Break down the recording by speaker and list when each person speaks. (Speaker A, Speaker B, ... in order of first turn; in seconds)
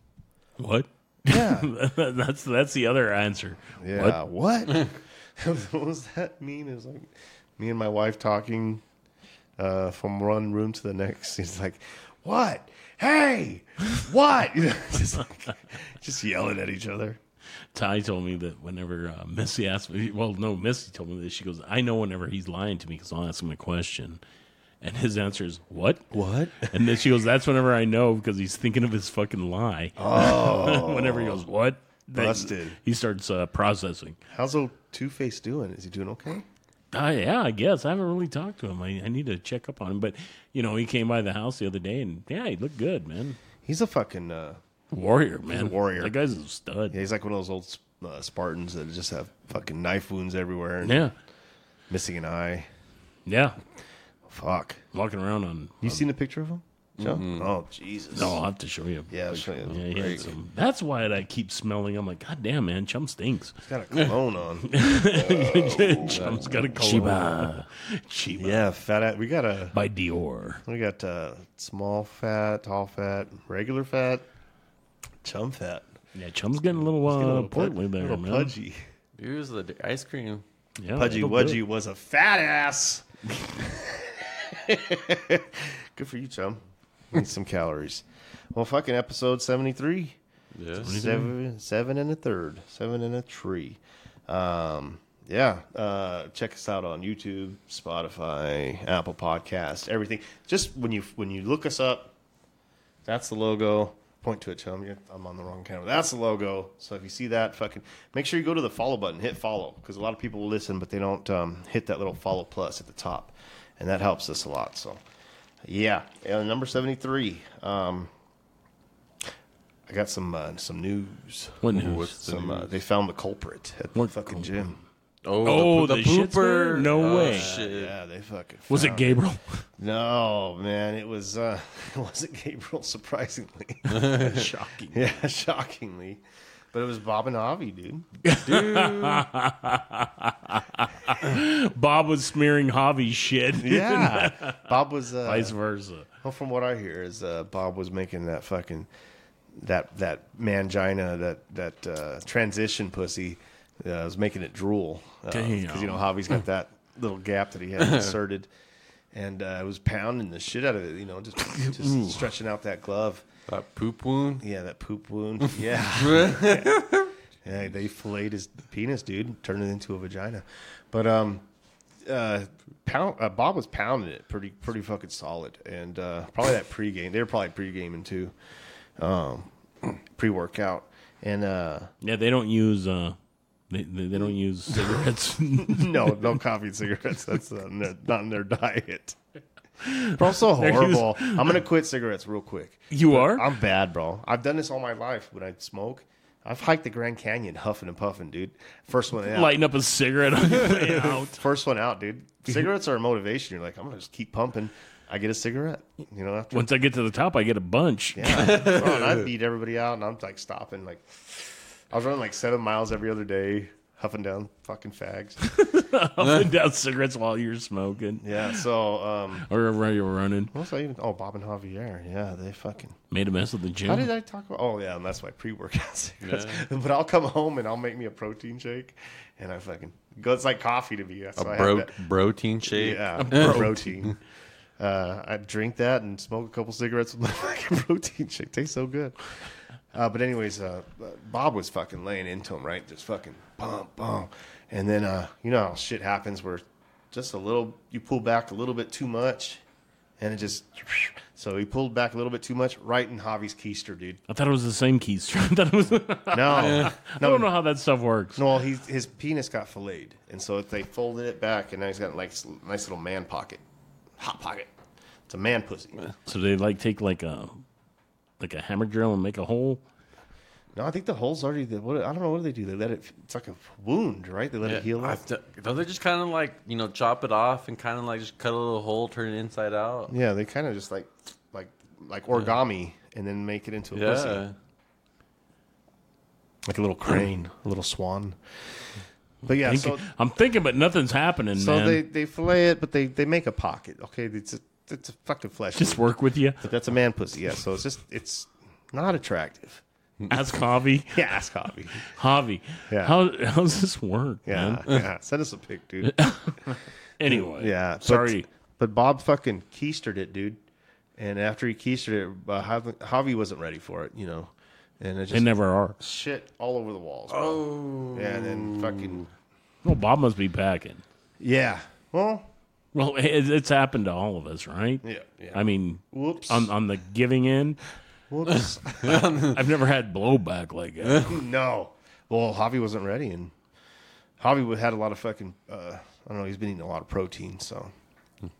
Speaker A: 0.6-4.2, 17.7-24.2, 24.8-34.2, 36.9-43.4, 44.9-47.0, 50.8-51.1, 53.3-53.6, 54.9-56.0, 58.1-63.6, 64.6-68.6, 69.7-70.6, 76.2-78.5, 80.8-81.6, 90.8-91.3, 121.6-122.2, 124.0-124.8, 125.4-127.5, 128.7-129.7, 134.1-135.0, 138.2-144.6, 145.2-146.1, 155.3-156.1, 161.4-162.2, 182.0-183.2, 183.7-186.3, 189.8-191.6, 192.9-193.5, 199.3-201.4, 206.5-208.7, 215.4-218.6, 219.4-220.5, 223.1-224.1, 233.2-234.0, 254.3-258.4, 266.3-267.6, 268.4-269.8, 289.6-292.0, 295.8-296.7, 300.3-301.2, 302.0-304.9, 306.0-308.5, 315.3-316.0, 319.8-321.0, 322.9-327.8, 329.4-331.4
Speaker B: 1.3-1.7, 3.8-8.8, 9.6-17.2, 26.1-26.7, 30.0-31.4, 32.1-32.8, 34.3-36.5, 43.6-44.6, 45.5-46.1, 46.9-51.0, 51.9-52.7, 54.3-54.8, 55.8-58.4, 59.1-60.3, 63.6-67.2, 68.4-69.8, 70.7-74.2, 75.2-75.9, 76.9-78.9, 81.0-86.6, 87.1-90.2, 90.8-102.1, 103.0-115.0, 115.6-118.1, 119.9-124.8, 127.0-129.2, 129.8-138.1, 143.6-145.6, 146.2-148.9, 149.5-158.5, 159.1-163.3, 164.4-171.4, 172.1-178.3, 179.0-181.9, 184.7-185.0, 185.6-189.2, 190.0-199.6, 200.5-206.7, 208.2-215.4, 218.2-219.5, 220.5-223.0, 223.8-232.0, 232.6-234.2, 234.8-239.4, 239.9-249.6, 250.2-254.2, 256.3-257.5, 258.4-263.6, 264.2-264.7, 265.3-266.0, 270.8-275.2, 280.1-284.5, 286.7-288.6, 289.5-290.0, 291.6-296.1, 296.6-299.8, 301.1-302.1, 302.9-303.2, 304.5-306.7, 307.2-310.6, 311.2-319.2, 321.4-322.5, 325.0-326.7, 328.3-329.5, 331.2-333.5, 334.4-337.9
Speaker C: 57.0-57.5, 66.1-67.1, 79.2-80.4, 90.6-90.9, 121.7-122.7, 125.2-128.0, 133.9-134.3, 138.4-139.2, 163.5-164.4, 165.9-167.1, 208.4-209.2, 226.2-226.7, 231.4-233.6, 256.5-256.9, 274.6-280.1, 283.9-284.6, 317.3-319.3, 328.5-329.6